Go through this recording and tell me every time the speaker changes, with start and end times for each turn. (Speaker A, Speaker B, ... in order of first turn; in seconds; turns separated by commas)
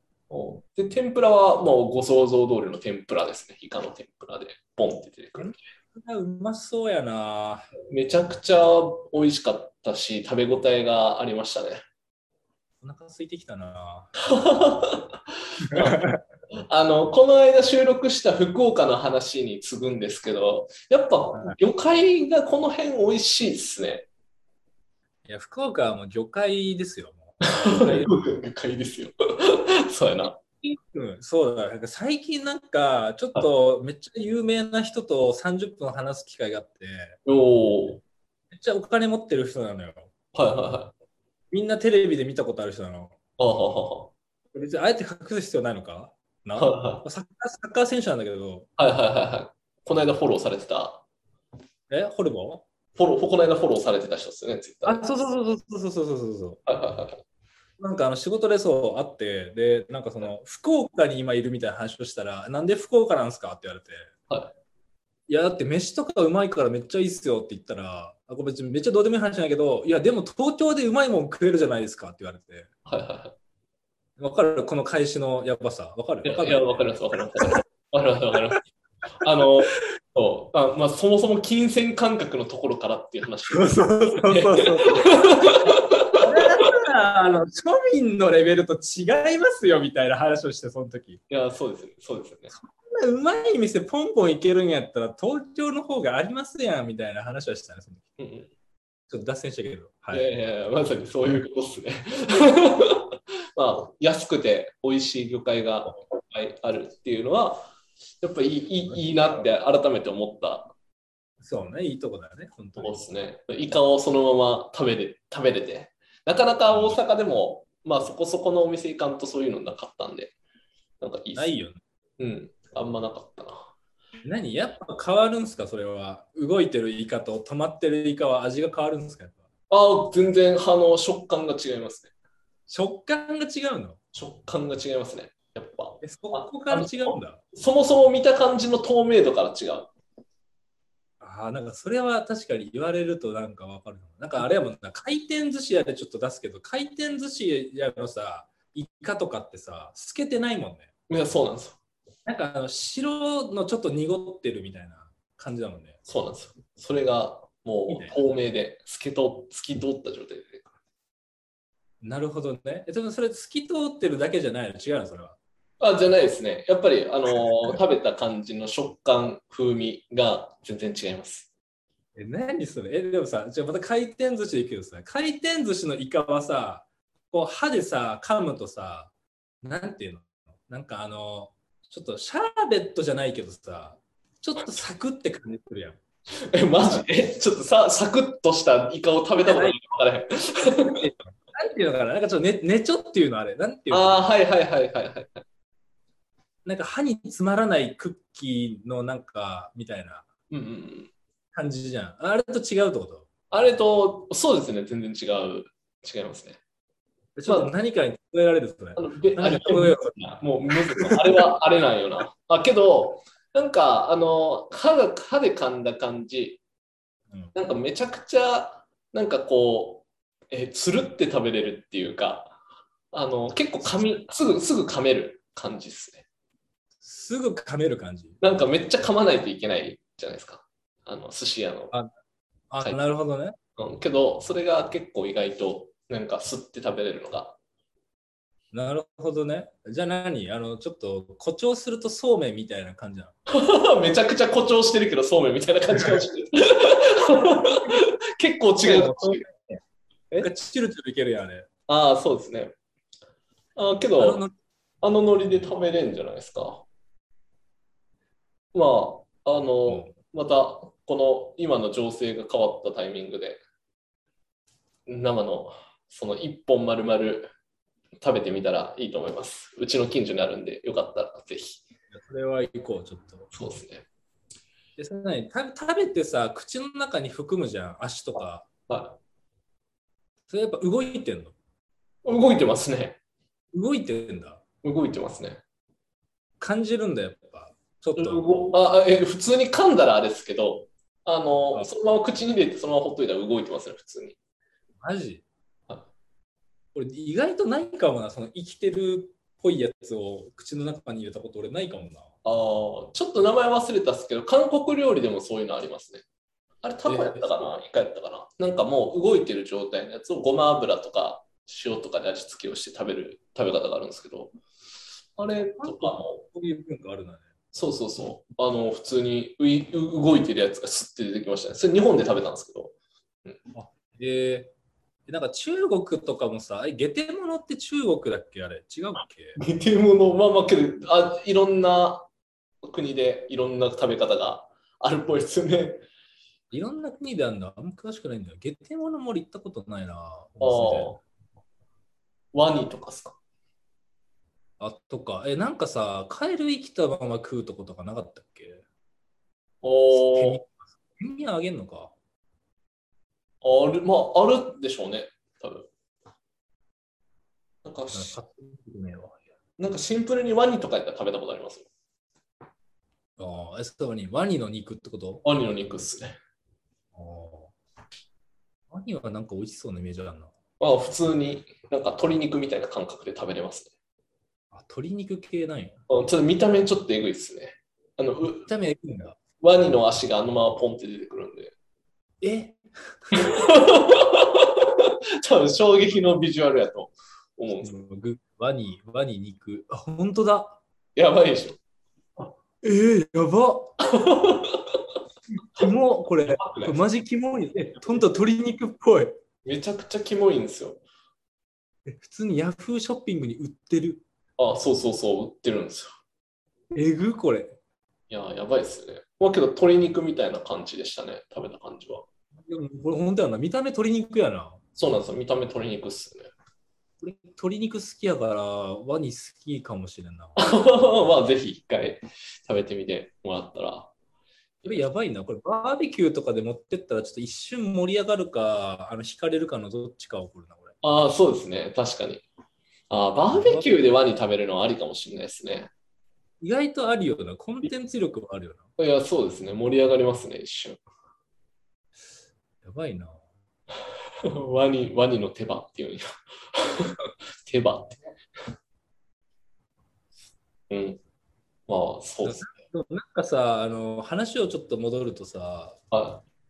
Speaker A: 0.3-5.6, Speaker B: 5.4-7.7, Speaker A: 7.9-11.8, Speaker B: 12.8-14.1, Speaker A: 14.3-16.1, Speaker B: 15.7-16.2, Speaker A: 16.7-24.1, Speaker B: 25.3-28.1, Speaker A: 27.7-30.4, Speaker B: 30.6-37.2, Speaker A: 37.3-38.0, Speaker B: 38.5-40.1, Speaker A: 40.3-40.9, Speaker B: 41.5-43.1, Speaker A: 43.4-44.1, Speaker B: 44.5-48.7, Speaker A: 46.6-47.0, Speaker A: 48.8-51.0, Speaker B: 51.9-52.6, Speaker A: 53.0-55.1, Speaker B: 54.9-56.6, Speaker A: 56.7-57.2, Speaker B: 57.8-64.1, Speaker B: 65.3-72.7, Speaker A: 72.9-73.4, Speaker B: 74.2-76.8, Speaker A: 76.2-78.7, Speaker A: 79.2-86.4, Speaker B: 83.5-91.2, Speaker A: 91.3-92.5, Speaker B: 92.5-98.1, Speaker A: 98.2-98.5, Speaker B: 99.1-100.3, Speaker A: 100.1-107.7, Speaker A: 108.2-110.7, Speaker B: 111.4-113.0, Speaker A: 112.8-120.3, Speaker B: 116.7-117.0, Speaker A: 121.0-121.6, Speaker B: 121.4-121.8, Speaker A: 122.2-123.7, Speaker B: 124.2-129.4, Speaker A: 129.7-132.1, Speaker B: 132.7-134.0, Speaker A: 134.1-139.9, Speaker B: 136.0-137.4, Speaker B: 141.2-150.9, Speaker A: 151.1-151.8, Speaker B: 152.3-156.0, Speaker A: 156.1-160.7, Speaker B: 157.9-158.2, Speaker B: 162.0-165.4, Speaker A: 165.8-171.5, Speaker B: 167.3-167.8, Speaker B: 172.2-179.1, Speaker B: 179.6-186.0, Speaker A: 186.5-191.0, Speaker B: 189.4-189.8, Speaker B: 190.8-194.2, Speaker A: 193.9-195.4, Speaker B: 196.7-200.3, Speaker A: 200.5-201.1, Speaker B: 201.6-203.3, Speaker A: 203.5-206.6, Speaker B: 207.4-210.2, Speaker A: 209.0-216.6, Speaker A: 217.5-222.6, Speaker A: 223.1-226.3, Speaker B: 223.8-224.2, Speaker B: 227.0-228.4, Speaker A: 228.4-231.9, Speaker B: 232.7-233.6, Speaker A: 233.8-237.6, Speaker B: 238.7-243.3, Speaker A: 243.5-249.4, Speaker B: 248.8-249.8, Speaker B: 250.4-251.7, Speaker A: 251.9-252.7, Speaker A: 253.8-254.4, Speaker B: 254.2-254.5, Speaker A: 255.0-256.9, Speaker A: 258.7-263.6, Speaker B: 259.9-260.1, Speaker A: 265.1-267.5, Speaker A: 268.2-271.8, Speaker B: 272.1-273.5, Speaker A: 273.5-274.1, Speaker B: 275.0-278.7, Speaker A: 278.9-279.2, Speaker B: 280.5-281.6, Speaker A: 282.2-283.2, Speaker B: 283.7-284.6, Speaker A: 284.8-285.6, Speaker B: 286.6-288.5, Speaker A: 288.2-294.4, Speaker B: 295.0-295.4, Speaker B: 296.9-302.3, Speaker A: 302.4-306.2, Speaker A: 306.8-314.6, Speaker B: 307.1-307.6, Speaker A: 315.4-316.4, Speaker B: 315.8-317.5, Speaker A: 317.7-323.0, Speaker B: 323.7-324.7, Speaker B: 325.3-329.6, Speaker A: 329.6-332.3, Speaker A: 332.9-336.0, Speaker B: 336.7-341.2, Speaker A: 340.6-341.2, Speaker A: 342.5-343.4, Speaker B: 344.8-348.8, Speaker A: 349.8-350.6, Speaker B: 350.1-352.1, Speaker A: 353.6-355.9, Speaker A: 357.8-358.4, Speaker B: 358.1-359.4, Speaker A: 359.8-361.9, Speaker B: 363.4-365.4, Speaker A: 365.4-366.4, Speaker B: 367.1-367.7, Speaker B: 368.9-370.5, Speaker A: 370.8-373.9, Speaker B: 374.7-376.0, Speaker A: 376.1-378.7, Speaker B: 378.6-379.4, Speaker A: 379.6-381.7, Speaker B: 382.4-383.6, Speaker A: 383.4-387.9, Speaker B: 387.7-390.8, Speaker A: 391.2-391.8, Speaker B: 392.8-393.9, Speaker A: 394.1-395.0, Speaker B: 395.8-399.4, Speaker A: 396.5-397.0, Speaker A: 399.6-401.0, Speaker B: 402.1-404.2, Speaker A: 404.6-406.1, Speaker B: 406.9-407.8, Speaker A: 408.3-412.2, Speaker B: 412.7-414.8, Speaker A: 414.9-416.5, Speaker B: 417.2-420.6, Speaker A: 420.6-424.1, Speaker A: 424.8-425.1, Speaker B: 424.9-430.9, Speaker A: 431.0-432.4, Speaker A: 433.1-435.9, Speaker B: 433.5-434.0, Speaker B: 436.6-438.9, Speaker A: 439.0-441.0, Speaker B: 442.8-443.4, Speaker A: 444.5-448.2, Speaker A: 450.9-451.2, Speaker A: 451.9-452.8, Speaker B: 452.4-456.0, Speaker A: 456.1-456.4